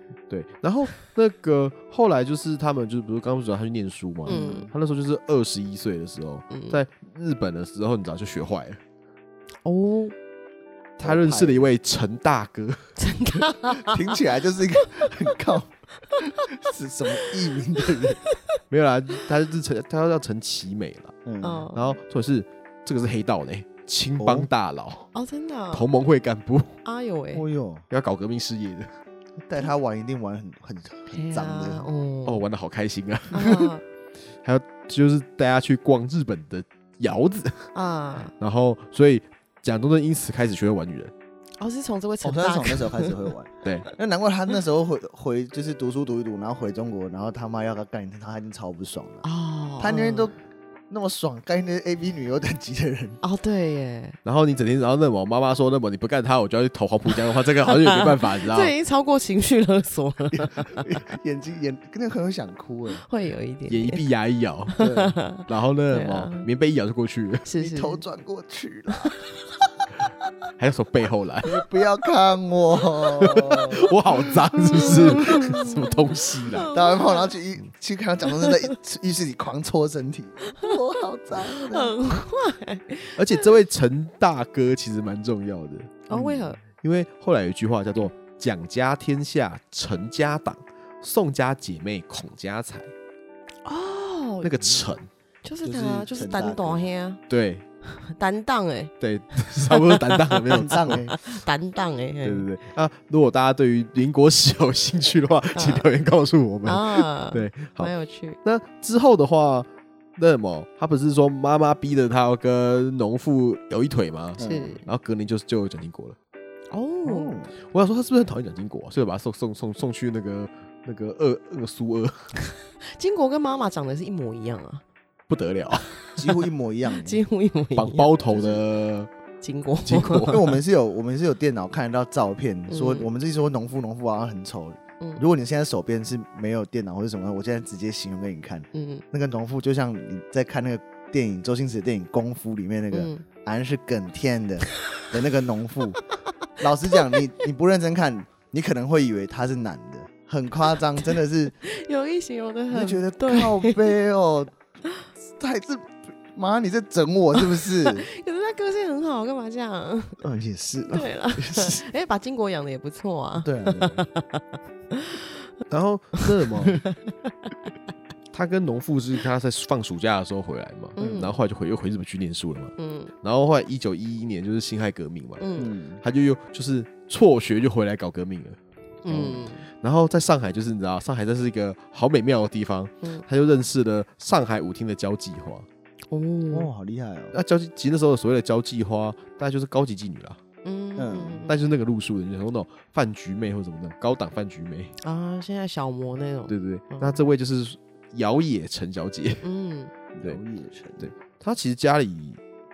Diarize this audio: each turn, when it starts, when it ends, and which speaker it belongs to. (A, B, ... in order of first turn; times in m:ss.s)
0:00.3-0:08.8 A
0:04.3-0:04.7 B
0:04.3-0:04.7 C
0:06.5-0:06.8 B
0:09.6-0:10.2 B
0:11.0-0:13.0 A
0:11.0-0:11.6 C
0:13.0-0:14.2 B
0:13.8-0:18.2 C
0:18.0-0:18.4 B
0:18.7-0:21.2 A
0:21.2-0:21.7 C
0:21.4-0:22.0 B
0:21.7-0:25.1 A
0:24.2-0:24.5 C
0:25.1-0:25.9 B
0:25.7-0:26.8 A
0:26.8-0:27.5 B
0:27.3-0:27.8 C
0:27.9-0:28.9 A
0:29.4-0:31.9 C
0:31.1-0:32.4 B
0:32.3-0:33.5 A
0:33.3-0:33.8 B
0:34.4-0:37.7 A
0:37.7-0:38.3 B
0:38.4-0:41.1 A
0:41.6-0:43.2 B
0:42.2-0:49.2 C
0:43.6-0:43.9 A
0:49.2-0:50.3 B
0:49.8-0:50.3 C
0:50.9-0:53.2 C
0:53.2-0:54.2 B
0:54.2-0:58.7 A
0:57.7-1:00.9 B
1:00.6-1:03.0 C
1:03.0-1:04.0 B
1:03.7-1:04.7 A
1:04.7-1:06.5 B
1:04.8-1:05.2 C
1:05.4-1:07.5 A
1:07.5-1:08.0 B
1:07.6-1:09.1 C
1:10.6-1:11.6 A
1:11.4-1:13.9 C
1:13.0-1:17.3 B
1:13.2-1:16.7 A
1:14.7-1:15.4 C
1:16.7-1:22.0 C
1:18.4-1:18.6 B
1:21.3-1:23.4 B
1:23.2-1:26.1 A
1:26.1-1:26.6 B
1:26.1-1:26.4 C
1:26.6-1:32.9 A
1:33.6-1:34.7 B
1:34.4-1:35.1 A
1:35.4-1:37.2 B
1:35.6-1:36.9 C
1:37.3-1:37.6 A
1:37.9-1:38.9 B
1:39.0-1:41.1 A
1:39.7-1:42.5 B
1:40.5-1:41.2 C
1:42.2-1:56.2 A
1:45.6-1:45.9 B
1:46.6-1:48.4 B
1:54.4-1:54.8 C
1:54.4-1:54.8 B
1:56.7-1:57.4 B
1:57.0-1:57.5 C
1:57.7-2:02.3 A
2:02.9-2:04.8 B
2:05.3-2:05.9 A
2:06.2-2:07.2 C
2:06.9-2:08.1 B
2:07.8-2:09.1 A
2:08.3-2:08.6 C
2:09.4-2:10.4 B
2:09.8-2:10.5 A
2:10.3-2:26.0 C
2:12.7-2:13.1 B
2:18.7-2:19.0 B
2:22.9-2:23.2 B
2:26.6-2:31.5 C
2:31.0-2:33.9 B
2:32.7-2:34.5 C
2:35.3-2:38.1 C
2:37.4-2:40.2 B
2:40.2-2:41.8 C
2:40.9-2:45.4 B
2:43.4-2:44.0 C
2:45.7-2:46.8 A
2:46.2-2:47.1 B
2:48.3-2:55.5 A
2:51.0-2:51.3 B
2:51.0-2:51.3 C
2:52.8-2:53.1 B
2:55.4-2:55.7 B
2:55.6-2:56.0 C
2:56.0-3:05.7 A
2:59.0-2:59.6 B
3:06.1-3:06.7 B
3:06.5-3:07.4 C
3:07.3-3:10.4 A
3:10.6-3:11.6 B
3:11.0-3:11.4 C
3:11.5-3:15.0 A
3:15.0-3:17.2 B
3:16.5-3:19.4 A
3:19.4-3:19.9 B
3:20.1-3:21.1 C
3:21.0-3:22.4 A